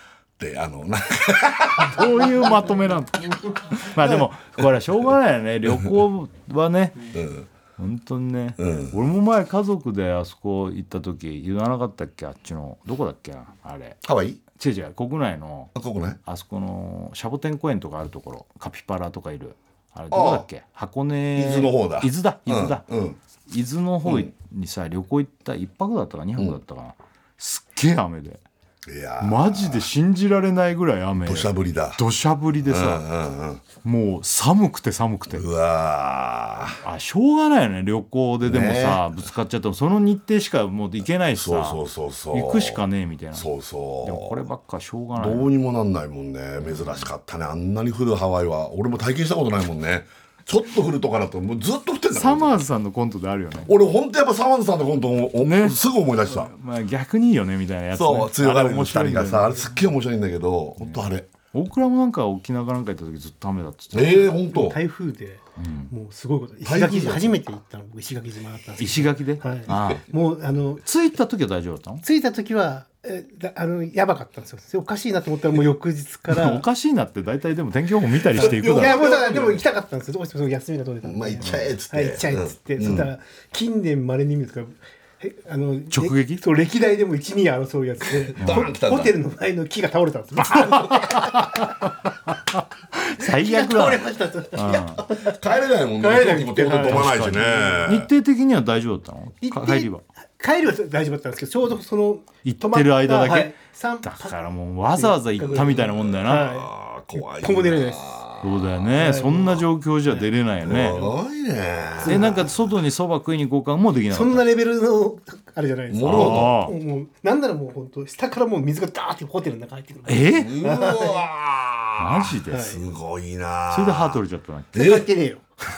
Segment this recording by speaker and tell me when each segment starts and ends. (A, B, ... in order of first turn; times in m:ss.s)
0:00.4-0:02.2 A
0:01.8-0:07.1 B
0:03.9-0:04.7 A
0:07.1-0:07.5 A
0:07.8-0:14.0 B
0:08.6-0:09.0 A
0:14.0-0:14.4 A
0:14.5-0:15.7 B
0:15.8-0:16.2 A
0:16.2-0:22.9 B
0:20.1-0:20.4 A
0:21.4-0:23.2 A
0:23.5-0:28.4 B
0:24.0-0:24.3 A
0:28.9-0:29.9 A
0:29.2-0:33.0 B
0:31.2-0:32.0 A
0:32.6-0:33.6 A
0:33.8-0:35.4 B
0:35.3-0:36.8 A
0:36.8-0:41.8 B
0:38.4-0:39.0 A
0:41.3-0:42.8 A
0:42.3-0:43.5 B
0:43.3-0:44.4 A
0:44.0-0:45.5 B
0:45.2-0:52.6 A
0:46.7-0:47.1 B
0:52.1-0:53.7 B
0:53.7-0:56.5 A
0:55.4-0:59.7 B
0:58.0-1:01.3 A
1:00.8-1:04.4 B
1:03.9-1:04.8 A
1:04.5-1:10.8 C
1:05.6-1:05.9 B
1:06.6-1:07.4 A
1:08.8-1:10.1 B
1:09.7-1:10.0 A
1:10.8-1:12.0 B
1:12.0-1:16.6 C
1:16.3-1:19.1 B
1:18.3-1:19.6 A
1:18.4-1:31.8 C
1:21.0-1:23.1 A
1:25.9-1:26.4 B
1:28.4-1:29.2 A
1:28.4-1:28.7 B
1:30.5-1:35.0 B
1:30.5-1:30.8 A
1:33.2-1:35.4 C
1:35.2-1:38.1 A
1:36.0-1:37.8 C
1:36.9-1:40.0 B
1:39.4-1:44.4 C
1:42.4-1:46.5 B
1:45.0-1:48.2 C
1:46.3-1:48.8 A
1:48.4-1:51.1 B
1:48.9-1:50.3 C
1:50.6-1:52.6 A
1:52.0-1:52.5 C
1:52.0-1:54.5 B
1:54.1-2:01.3 C
1:55.9-1:56.6 A
1:56.0-1:56.8 B
2:00.1-2:00.6 B
2:00.4-2:04.2 A
2:02.0-2:02.8 B
2:02.5-2:02.8 C
2:03.7-2:05.0 B
2:04.7-2:05.5 C
2:04.8-2:05.0 A